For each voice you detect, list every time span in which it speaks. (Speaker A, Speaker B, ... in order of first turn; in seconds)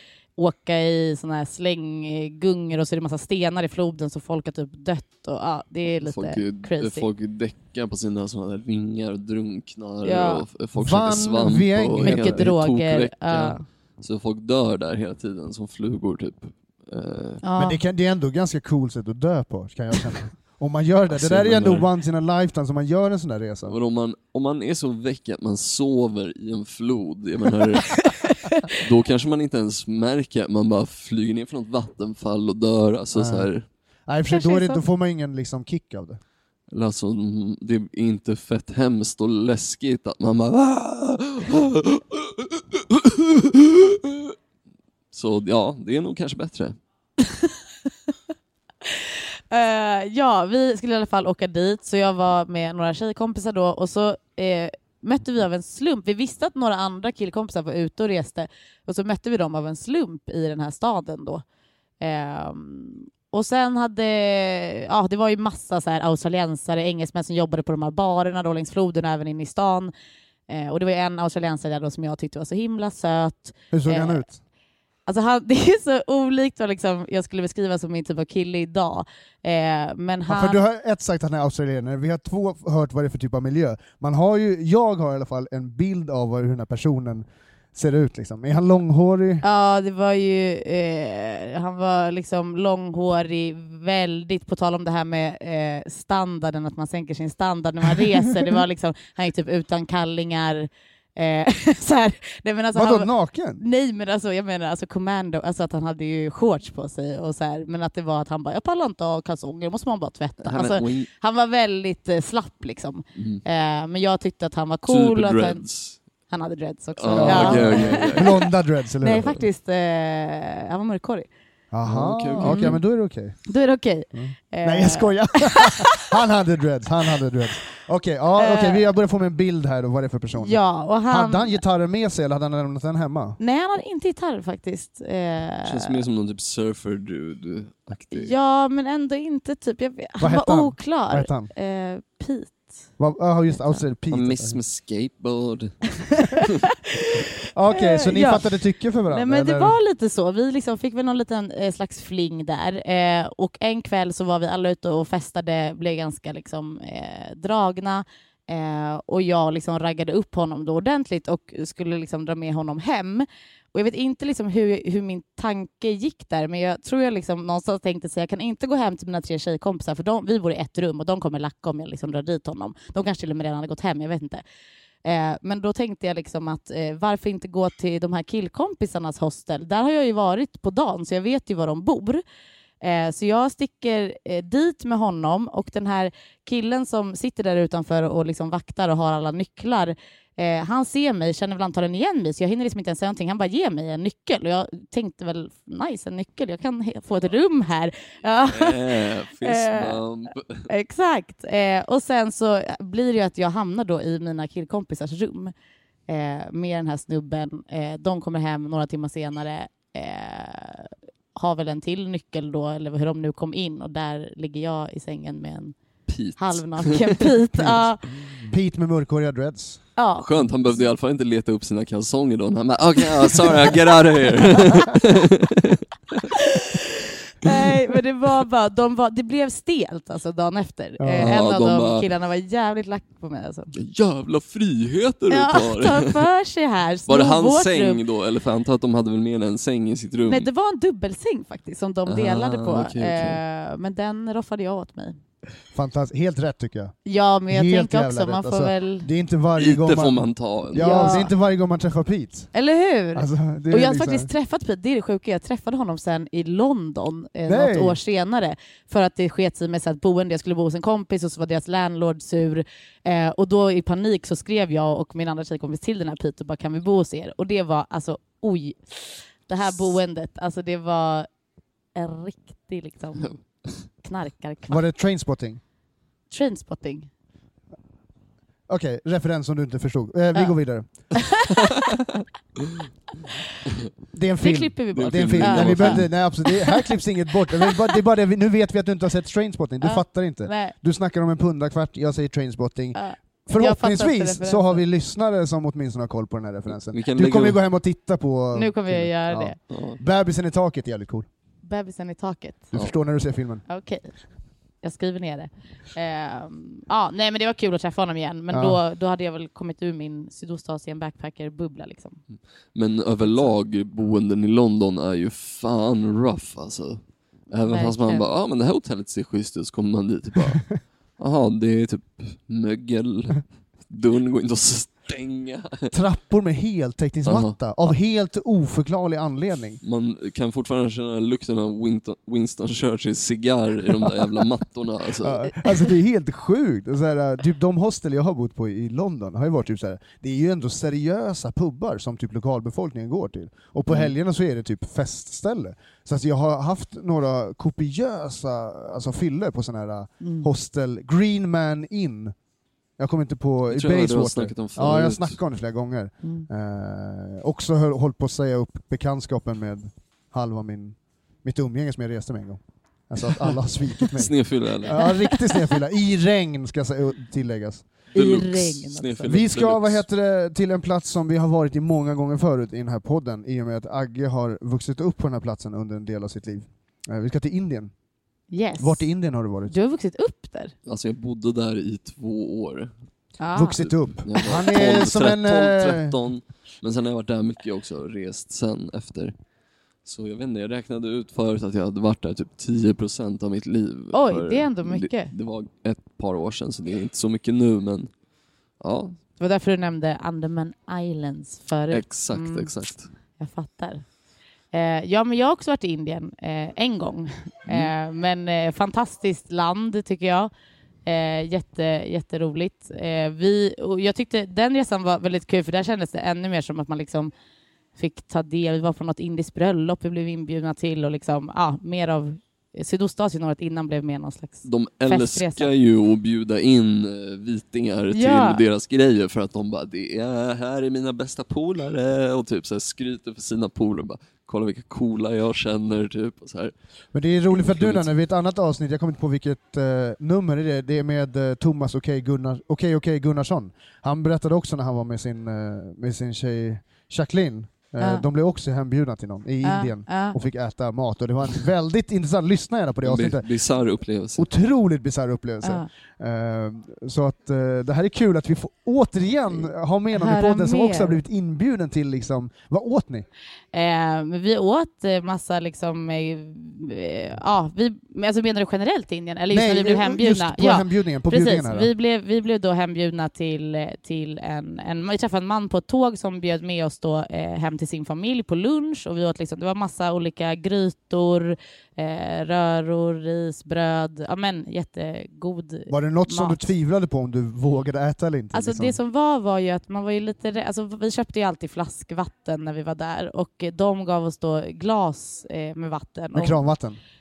Speaker A: 0.4-7.1, 10.0-10.4, 12.0-13.6, 17.4-17.8, 34.3-34.8, 47.2-47.6, 48.9-61.4, 62.0-69.9, 70.5-74.3, 75.0-80.6, 89.4-115.6, 116.3-118.5, 119.0-121.3, 122.4-122.8, 123.5-126.0, 128.4-128.9, 130.4-131.6, 133.4-135.9, 138.1-142.7, 146.2-147.1, 147.7-174.4, 175.0-182.2, 182.8-200.0, 200.7-205.5, 206.1-215.8, 216.4-218.0, 220.0-220.4, 226.4-233.7, 235.3-238.0, 240.2-245.2, 247.1-249.1, 250.7-251.3, 252.5-271.3, 271.9-274.8, 276.3-277.1, 281.1-281.7, 284.4-286.9, 287.6-288.0, 289.8-290.7, 292.9-294.8, 298.5-299.6, 301.6-302.7, 303.7-304.1, 304.8-312.2, 317.6-318.2, 350.2-350.5, 365.0-365.6, 368.1-369.4, 378.5-379.1, 379.7-380.7, 383.4-383.9, 394.1-395.3, 399.4-402.7, 403.4-404.0, 404.7-410.5, 411.1-417.3, 417.9-425.7, 428.1-428.6, 449.6-450.4, 460.1-461.2, 463.7-486.6, 488.5-496.6
Speaker B: 6.0-17.4, 21.1-21.9, 23.7-28.1, 28.7-33.6, 36.7-44.4, 45.1-46.8, 110.4-111.1, 113.2-113.4, 114.9-116.0, 117.0-118.4, 121.9-122.8, 135.6-138.3, 144.1-146.6, 198.5-200.7, 216.1-217.3, 220.2-226.2, 231.2-232.1, 233.7-236.2, 237.1-240.5, 242.1-243.4, 249.6-251.1, 281.9-282.9, 284.9-286.1, 296.9-297.6, 299.7-300.0, 312.7-325.9, 327.2-327.6, 329.8-335.5, 343.9-344.1, 353.7-355.4, 364.1-365.1, 368.1-370.1, 380.9-382.9, 384.2-389.3, 390.0-398.1, 398.8-399.2, 401.9-403.1, 407.7-407.9, 424.6-436.7, 437.5-438.1, 453.0-454.4
Speaker C: 10.8-12.5, 17.6-23.8, 33.1-33.5, 34.1-36.2, 73.7-74.4, 80.3-89.4, 102.7-103.6, 117.2-119.4, 121.7-123.4, 124.1-130.6, 131.1-133.4, 140.2-141.5, 143.0-144.6, 147.5-149.7, 218.5-219.8, 231.0-231.3, 245.7-246.9, 247.5-252.5, 253.1-254.3, 257.5-258.0, 274.7-275.6, 278.7-280.9, 284.1-301.3, 302.7-303.6, 308.5-308.8, 325.9-329.8, 335.2-352.4, 353.0-367.9, 369.3-377.9, 378.8-379.7, 383.5-386.1, 437.1-453.5, 454.4-463.3, 469.5-471.9, 485.9-488.9, 496.3-497.0